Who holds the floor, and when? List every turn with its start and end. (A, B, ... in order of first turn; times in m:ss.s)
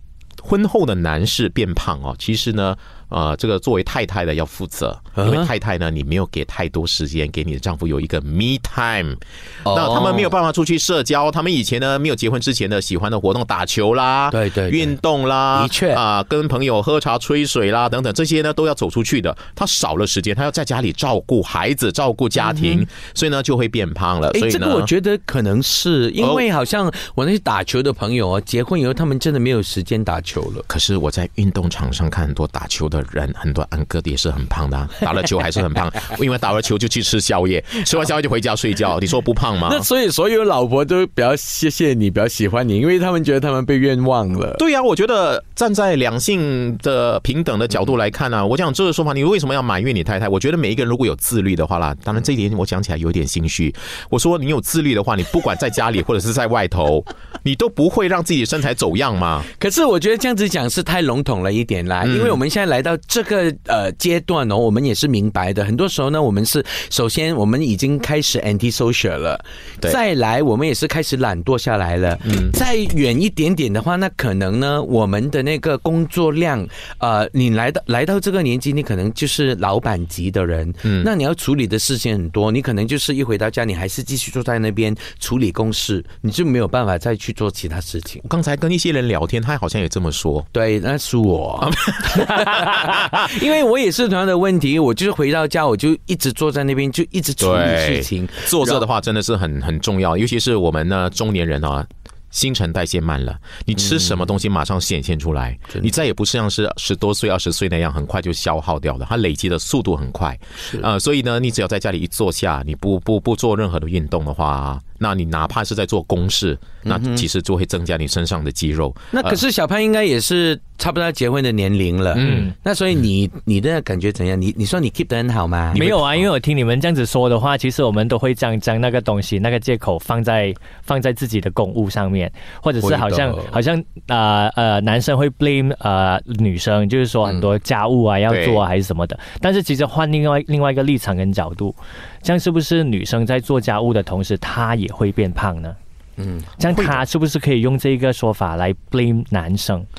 0:00.4-0:24.9 A
0:05.2-0:05.5 B
0:09.6-0:10.3 B
0:14.3-0:15.0 B
0:15.5-0:16.0 B
0:22.5-0:22.8 B
0:24.3-0:30.6 B
0:30.7-0:39.8 A
0:39.6-0:44.6 B
0:44.6-0:59.5 A
0:59.6-1:28.2 B
1:02.0-1:02.4 A
1:12.2-1:12.5 A
1:28.2-1:30.5 A
1:30.5-1:38.8 B
1:31.6-1:33.3 A
1:37.4-1:59.4 A
1:56.8-1:57.2 B
1:59.1-2:05.8 B
2:02.1-2:02.5 A
2:02.2-2:02.5 C
2:05.7-2:06.3 A
2:05.7-2:25.8 C
2:12.8-2:13.5 B
2:18.3-2:18.6 A
2:26.2-2:26.5 B
2:26.6-2:29.8 C
2:26.7-2:27.0 A